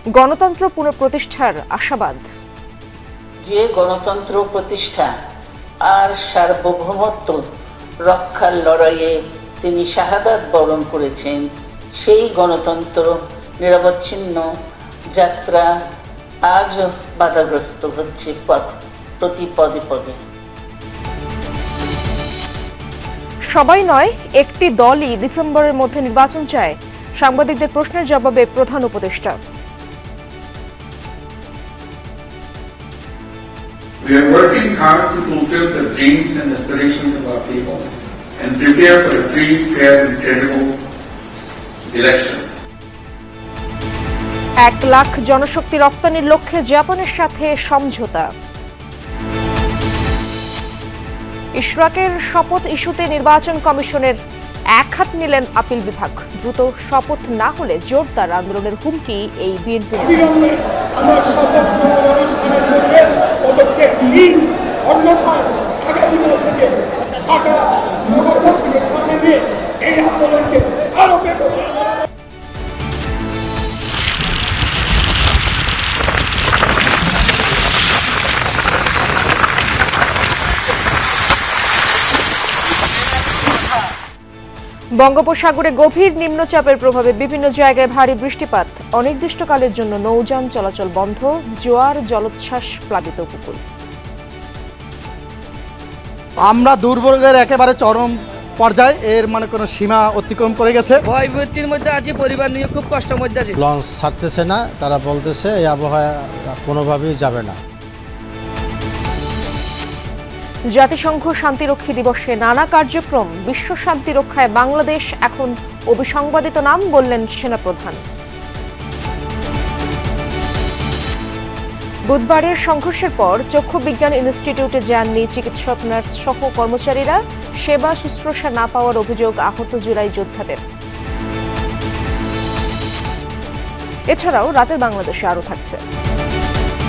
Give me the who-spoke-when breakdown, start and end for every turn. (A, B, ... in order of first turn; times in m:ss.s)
0:00.2-0:02.2 A
0:03.4-0:05.1 B
0:05.8-0:07.4 B
0:08.1-0:11.4 B
0:12.0-0:14.4 B
0:15.2-0:15.7 B
0:16.5-0:20.2 B
0:23.5-0:29.4 A
0:34.0-0:37.8 C
0:38.4-0:40.7 C
0:41.9-0:42.4 C
0:44.6-0:48.3 A
0:51.6-0:54.2 A
0:54.8-1:00.3 A
1:25.0-1:33.6 A
1:36.5-1:41.0 D
1:41.1-1:43.5 E
1:43.6-1:47.6 F
1:50.7-1:58.0 A
2:02.1-2:10.6 A
2:14.1-2:15.8 A